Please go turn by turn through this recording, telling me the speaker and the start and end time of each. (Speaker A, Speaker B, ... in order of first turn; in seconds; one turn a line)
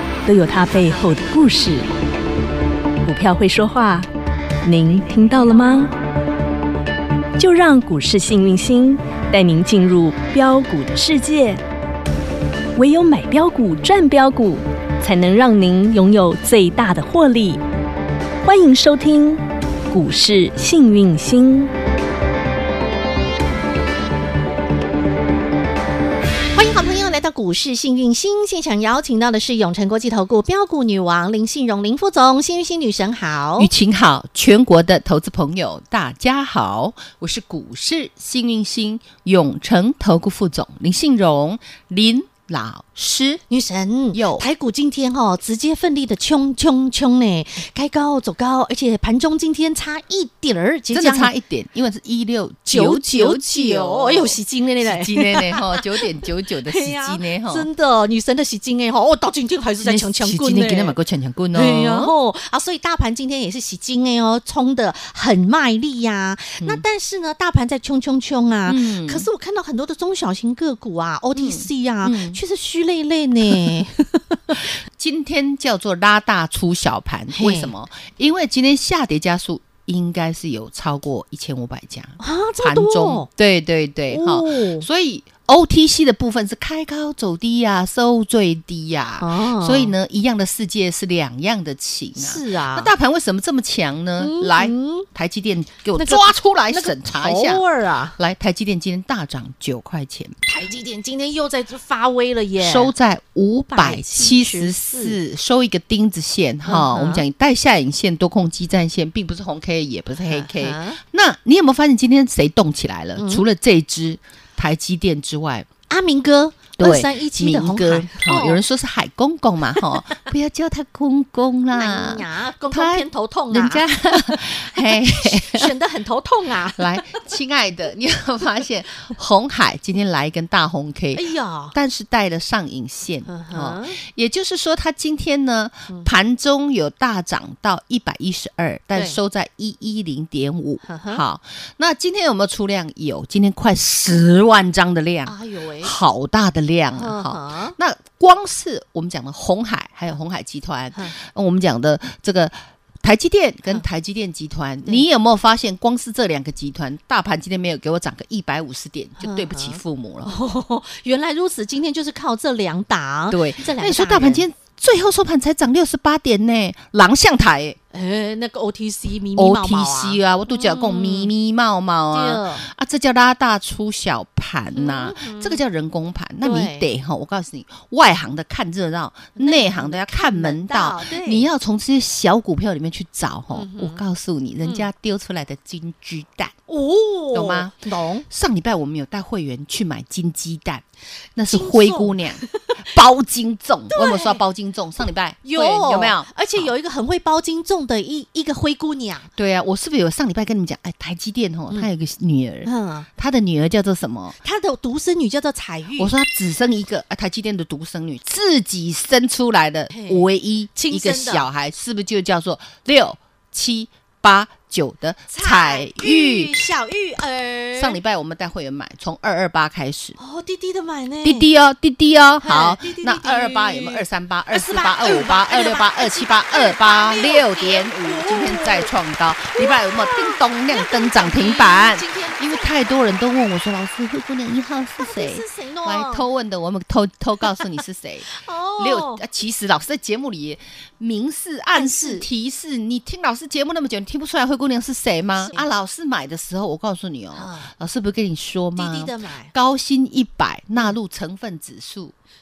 Speaker A: 0.2-1.9
Speaker A: 3.0-4.1
Speaker A: 4.6-5.9
Speaker A: 7.4-11.6
Speaker A: 12.8-17.6
Speaker A: 18.4-21.7
Speaker B: 26.5-33.7
Speaker C: 33.6-43.4
Speaker B: 43.5-51.3
Speaker C: 44.1-44.5
Speaker C: 50.9-57.7
Speaker B: 52.7-61.0
Speaker C: 59.8-62.1
Speaker B: 61.5-74.7
Speaker C: 68.7-69.3
Speaker C: 71.3-72.4
Speaker C: 73.5-73.8
Speaker C: 74.8-97.6
Speaker B: 77.3-77.7
Speaker B: 82.2-83.3
Speaker B: 84.1-84.8
Speaker B: 89.2-89.9
Speaker B: 92.2-92.9
Speaker B: 94.2-95.1
Speaker B: 95.9-98.2
Speaker C: 98.2-100.4
Speaker B: 100.4-102.9
Speaker C: 102.6-115.7
Speaker B: 103.7-105.2
Speaker B: 106.7-107.2
Speaker B: 110.2-111.0
Speaker B: 113.2-113.4
Speaker B: 115.9-118.6
Speaker C: 116.8-125.7
Speaker B: 121.7-127.2
Speaker C: 126.8-160.3
Speaker B: 131.1-131.7
Speaker B: 133.2-134.0
Speaker B: 140.8-141.2
Speaker B: 145.2-145.9
Speaker B: 146.9-147.8
Speaker B: 159.2-164.4
Speaker C: 163.3-167.8
Speaker B: 167.9-171.3
Speaker C: 169.3-186.5
Speaker B: 172.1-172.6
Speaker B: 174.7-175.6
Speaker B: 176.4-176.9
Speaker B: 179.3-181.5
Speaker B: 183.5-184.0
Speaker B: 186.7-188.2
Speaker C: 187.3-190.8
Speaker C: 191.3-196.7
Speaker B: 191.5-192.8
Speaker B: 193.9-194.4
Speaker B: 195.4-199.3
Speaker C: 199.3-204.4
Speaker B: 202.6-203.1
Speaker B: 204.4-206.1
Speaker C: 206.0-216.5
Speaker B: 209.9-211.5
Speaker B: 215.3-218.0
Speaker C: 217.8-220.2
Speaker B: 220.2-221.5
Speaker C: 221.2-252.1
Speaker B: 222.4-228.9
Speaker B: 229.5-232.9
Speaker B: 235.0-236.2
Speaker B: 238.3-239.2
Speaker B: 241.7-242.2
Speaker B: 245.4-245.7
Speaker B: 247.3-247.7
Speaker B: 248.8-249.5